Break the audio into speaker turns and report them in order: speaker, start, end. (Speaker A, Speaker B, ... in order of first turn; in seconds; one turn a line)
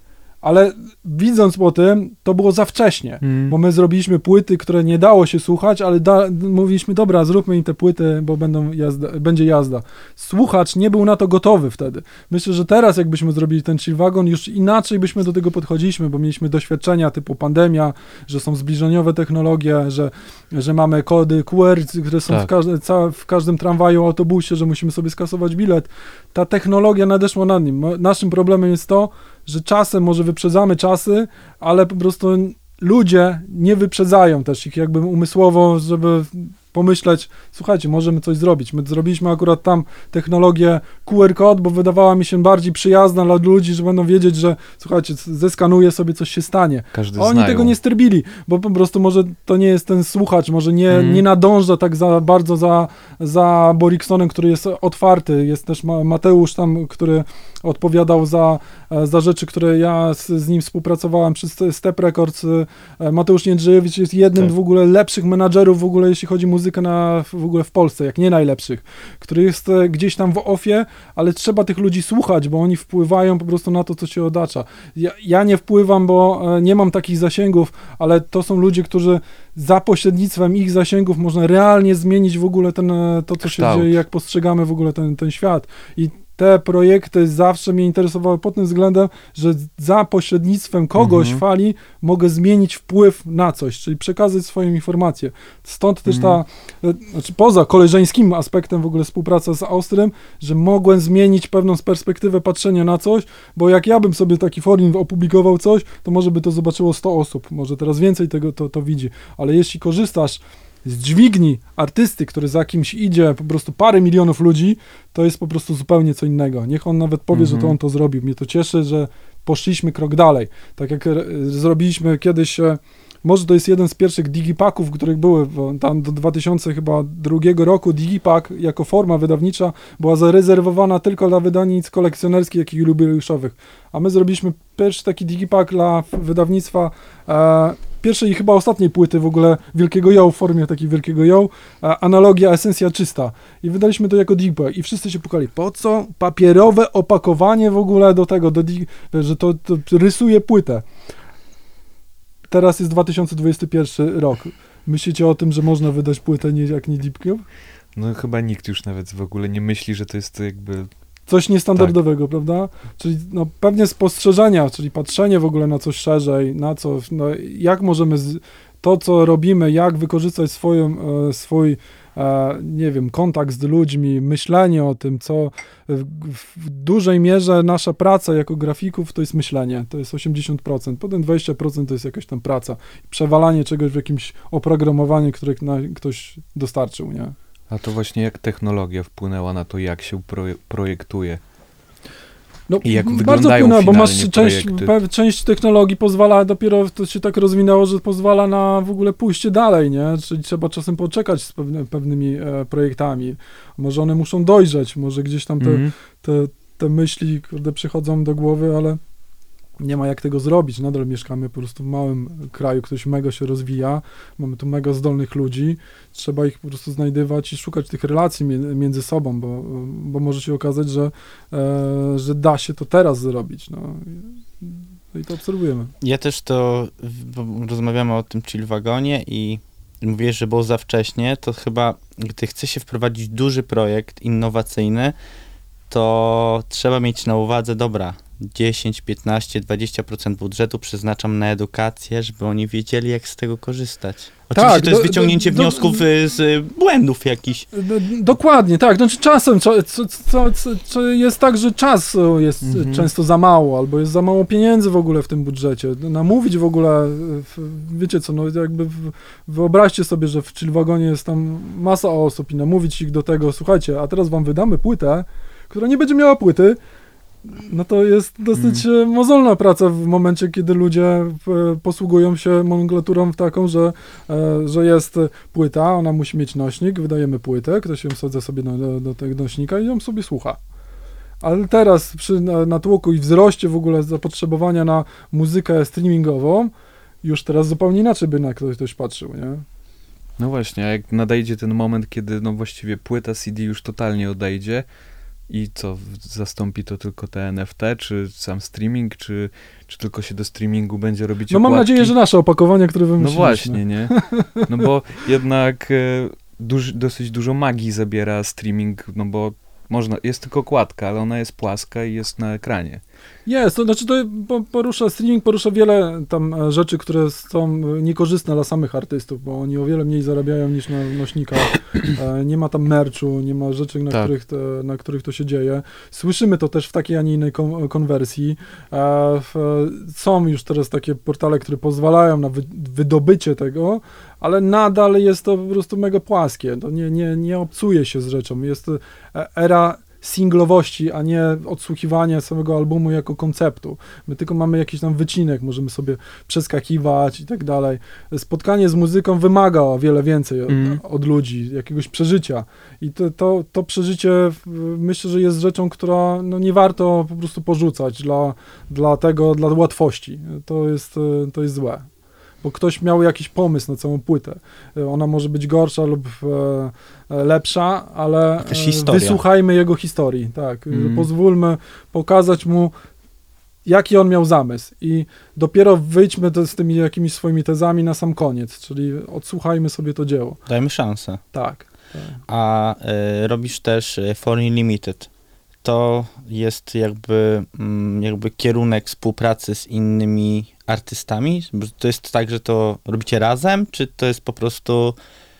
Speaker A: 0.4-150.8
Speaker B: 3.2-3.5
Speaker B: 46.9-47.8
Speaker B: 50.9-51.2
Speaker B: 83.4-84.0
Speaker B: 91.0-91.4
Speaker B: 96.0-96.4
Speaker B: 117.3-117.8
Speaker A: 152.5-157.4
Speaker B: 157.9-160.9
Speaker A: 161.3-187.3
Speaker B: 187.7-191.4
Speaker A: 192.7-209.0
Speaker B: 192.8-194.9
Speaker B: 205.6-205.9
Speaker A: 209.8-225.9
Speaker C: 226.0-235.2
Speaker C: 235.9-247.7
Speaker A: 244.5-246.0
Speaker A: 247.7-266.8
Speaker B: 252.6-253.1
Speaker A: 267.4-280.6
Speaker B: 268.5-268.8
Speaker A: 281.4-286.7
Speaker A: 287.2-289.6
Speaker B: 290.4-294.9
Speaker B: 295.5-302.1
Speaker A: 301.5-304.6
Speaker B: 303.2-313.0
Speaker A: 313.4-362.1
Speaker B: 350.7-351.0
Speaker A: 362.6-372.9
Speaker C: 368.6-369.4
Speaker B: 370.9-371.3
Speaker A: 373.8-380.6
Speaker C: 380.7-381.4
Speaker A: 381.5-382.4
Speaker C: 382.5-385.3
Speaker C: 385.8-395.2